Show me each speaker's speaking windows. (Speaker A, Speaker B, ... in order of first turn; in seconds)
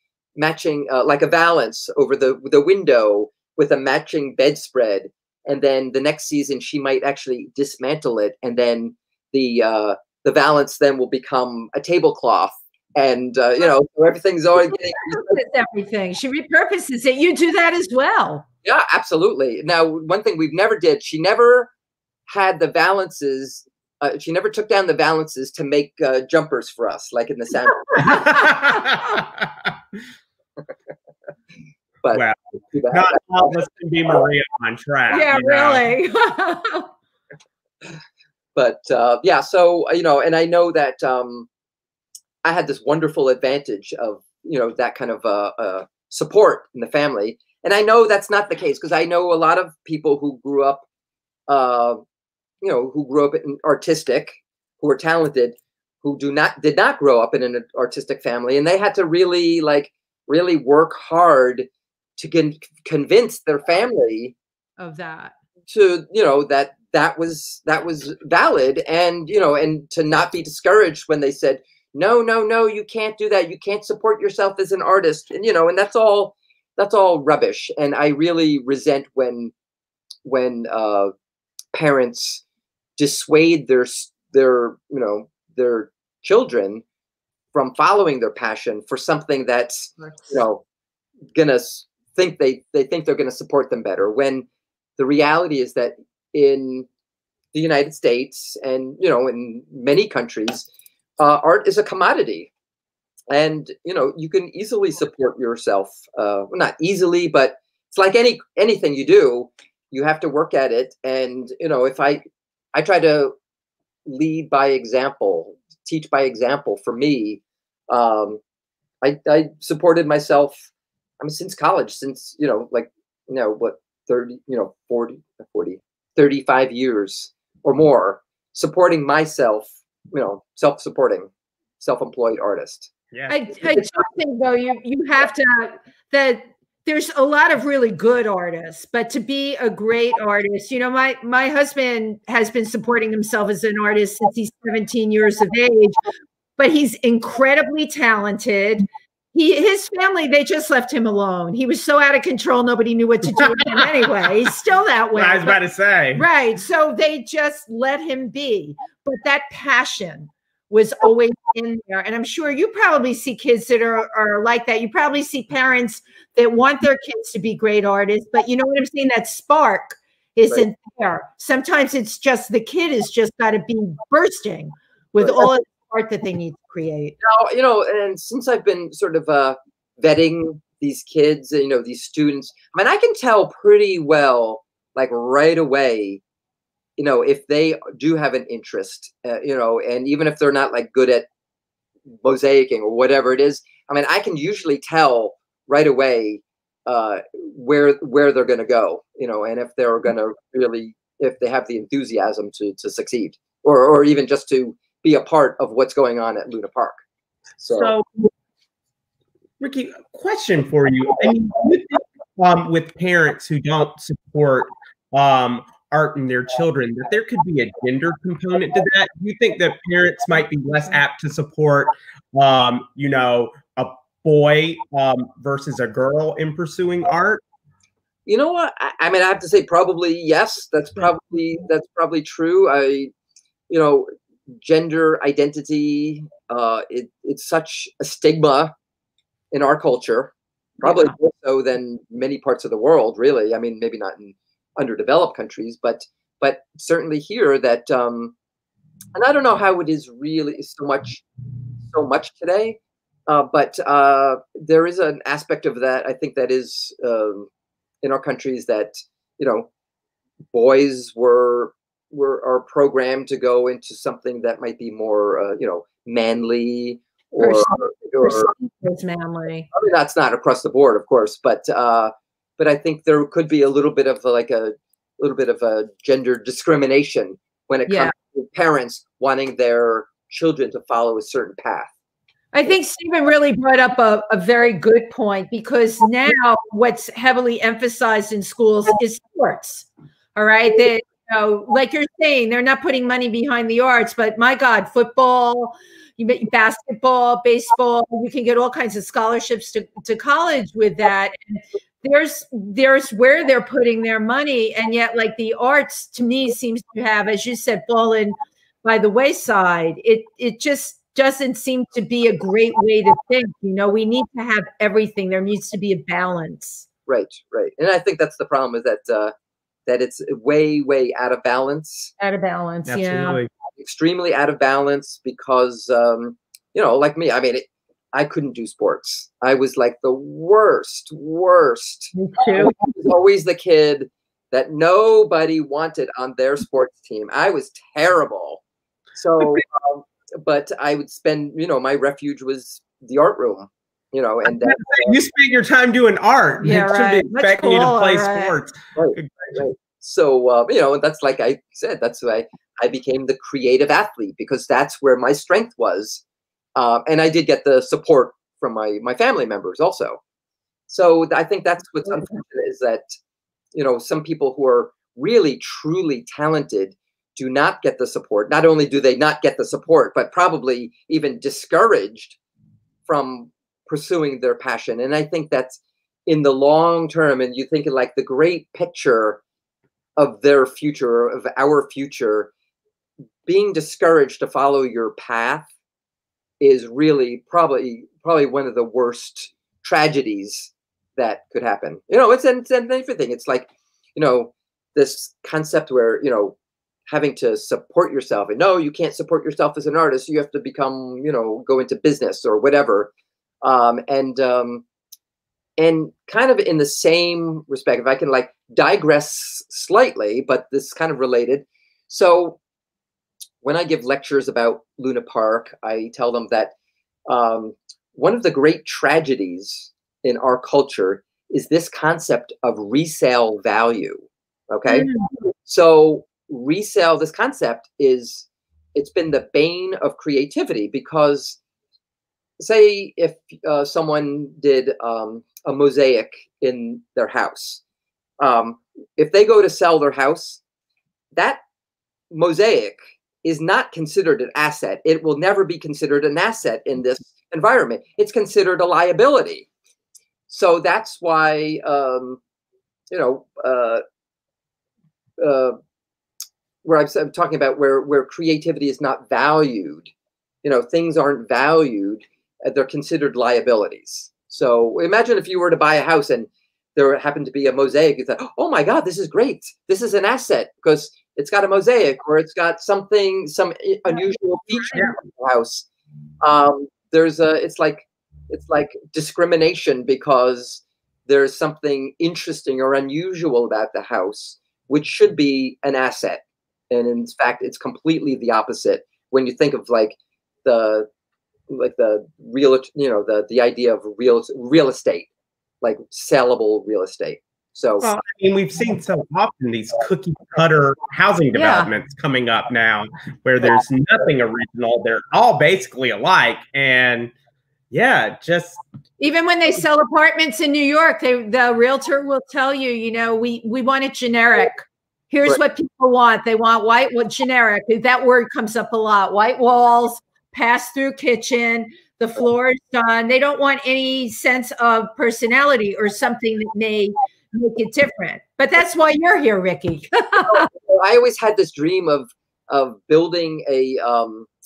Speaker A: 0.4-15.4, 18.6-21.7, 22.3-28.3, 32.0-33.6, 38.6-41.5, 42.4-50.8, 51.5-52.0, 52.6-61.7, 62.2-64.3, 65.7-79.5, 80.2-81.1, 81.7-82.4, 83.0-86.8, 87.5-90.6, 91.3-94.5, 95.0-96.9, 97.5-100.7, 101.2-102.5, 103.3-113.3, 114.1-118.4, 119.0-120.7, 121.2-131.3, 131.8-132.9, 175.2-175.5, 177.2-186.2, 187.0-191.3, 192.2-207.0, 207.6-207.9, 228.3-233.1, 233.7-238.7, 239.5-248.3, 249.2-251.2, 251.9-257.5, 258.0-259.7, 260.5-268.5, 269.7-281.9, 317.1-319.3, 319.9-322.1, 323.8-338.6, 339.1-345.2, 348.9-356.2, 356.8-360.2, 360.9-363.1, 363.7-372.4, 373.1-379.4, 380.2-382.5, 383.5-385.7, 386.6-396.6, 397.1-403.1, 403.6-404.8, 405.8-412.6, 413.6-416.7, 417.3-425.1, 425.7-431.6, 432.6-437.8, 438.4-440.6, 441.4-441.6, 442.3-449.7, 450.5-452.4, 453.1-454.0, 455.4-455.8, 456.8-460.1, 460.6-475.9, 476.4-491.1, 491.7-495.3, 495.8-498.1, 530.4-534.5
Speaker B: 14.7-18.5, 28.0-28.5, 35.1-36.9, 64.8-65.3, 90.0-90.3, 133.3-146.0, 146.6-155.6, 156.2-177.2, 267.4-269.7, 277.9-278.1, 282.5-316.9, 322.2-323.4, 332.1-332.8, 346.6-348.5, 424.9-425.3, 501.5-501.9, 509.2-530.7
Speaker C: 28.0-29.8, 32.1-32.4, 32.9-35.9, 153.3-154.3, 155.1-156.3, 207.7-208.3, 209.6-227.4, 322.9-323.5, 344.4-349.6, 498.0-507.3, 507.9-508.8